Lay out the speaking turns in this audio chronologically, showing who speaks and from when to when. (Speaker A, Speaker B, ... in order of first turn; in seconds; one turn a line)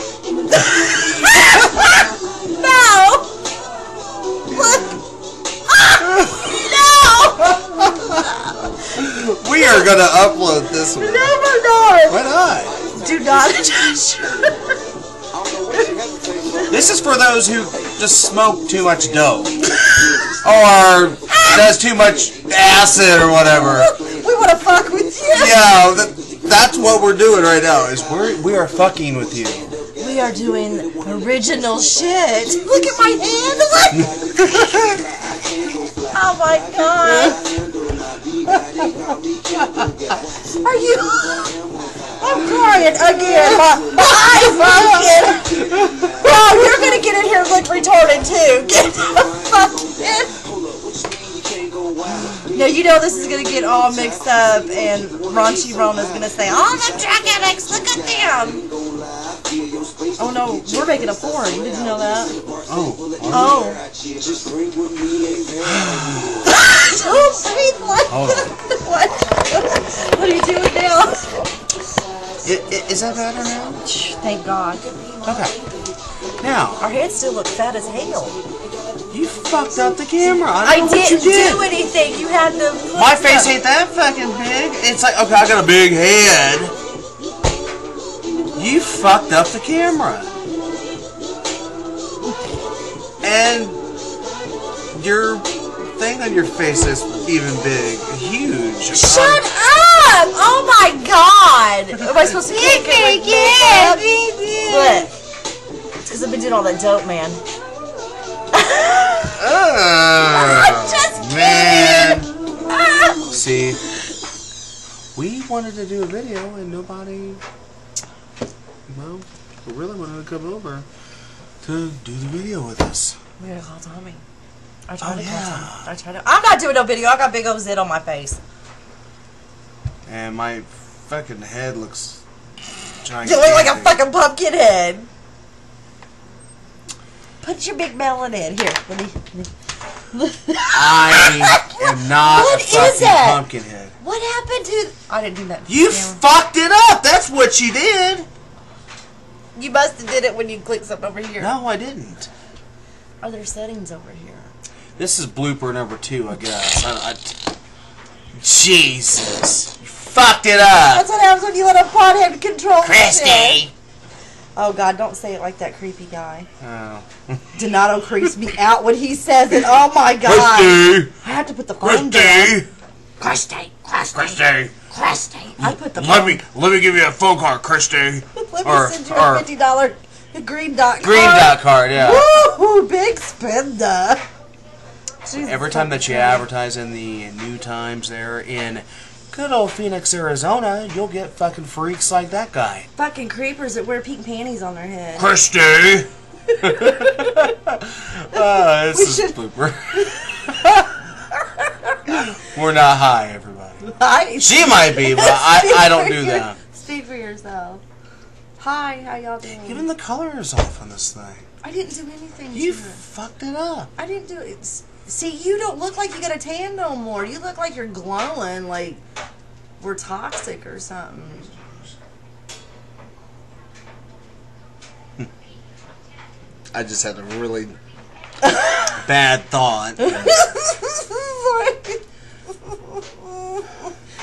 Speaker A: 0.5-3.3
Speaker A: 4.5-5.0
Speaker A: 5.7-8.7
Speaker B: 6.0-6.5
Speaker B: 7.6-8.2
Speaker B: 8.9-11.4
Speaker A: 10.9-12.2
Speaker B: 12.1-12.7
Speaker A: 12.9-14.5
Speaker B: 16.7-19.6
Speaker B: 20.1-23.9
Speaker A: 21.3-21.7
Speaker A: 23.6-25.7
Speaker B: 25.4-29.8
Speaker A: 30.0-34.5
Speaker A: 36.1-37.4
Speaker A: 40.5-41.6
Speaker A: 42.2-50.4
Speaker A: 52.0-58.7
Speaker A: 60.2-62.4
Speaker B: 62.7-63.7
Speaker A: 63.3-63.8
Speaker B: 65.6-66.5
Speaker A: 66.4-71.5
Speaker B: 68.1-68.5
Speaker B: 72.4-73.8
Speaker A: 73.8-74.8
Speaker B: 75.2-75.5
Speaker B: 76.4-76.9
Speaker A: 76.8-78.4
Speaker B: 79.1-81.7
Speaker A: 80.6-83.5
Speaker B: 83.0-86.7
Speaker B: 88.6-90.3
Speaker B: 93.2-93.8
Speaker B: 94.9-99.4
Speaker A: 98.9-104.0
Speaker B: 101.9-105.1
Speaker A: 104.7-105.1
Speaker A: 106.1-107.4
Speaker A: 108.5-109.4
Speaker B: 109.3-112.3
Speaker A: 110.3-113.3
Speaker B: 113.3-113.8
Speaker B: 115.2-117.4
Speaker B: 118.9-120.9
Speaker B: 121.6-123.2
Speaker A: 123.4-124.2
Speaker A: 124.9-128.4
Speaker B: 125.0-125.9
Speaker B: 130.1-132.2
Speaker B: 133.0-134.0
Speaker A: 133.2-135.1
Speaker A: 137.4-139.5
Speaker A: 140.1-143.4
Speaker B: 140.7-143.9
Speaker A: 144.0-146.2
Speaker B: 145.7-148.3
Speaker A: 149.6-151.5
Speaker B: 151.4-152.3
Speaker A: 153.2-154.5
Speaker B: 155.0-157.4
Speaker B: 158.3-161.1
Speaker A: 160.9-163.6
Speaker B: 162.8-163.7
Speaker A: 164.6-166.5
Speaker B: 166.6-167.5
Speaker A: 167.6-172.6
Speaker B: 170.2-171.1
Speaker B: 171.8-172.7
Speaker A: 173.2-174.4
Speaker B: 173.9-179.5
Speaker A: 175.0-176.4
Speaker A: 178.3-184.2
Speaker B: 181.0-182.3
Speaker A: 185.2-186.4
Speaker B: 185.3-192.9
Speaker A: 193.0-195.3
Speaker B: 195.2-196.1
Speaker A: 196.5-197.5
Speaker B: 196.6-201.0
Speaker A: 198.9-199.3
Speaker A: 199.9-200.5
Speaker A: 201.3-202.2
Speaker B: 202.2-203.9
Speaker A: 203.9-207.8
Speaker B: 204.4-206.6
Speaker A: 208.6-209.9
Speaker B: 209.6-211.4
Speaker A: 211.6-213.0
Speaker B: 212.5-213.9
Speaker A: 214.0-219.0
Speaker A: 219.8-221.5
Speaker B: 226.7-227.8
Speaker A: 228.4-229.0
Speaker B: 229.0-230.4
Speaker A: 230.0-232.0
Speaker A: 232.6-233.9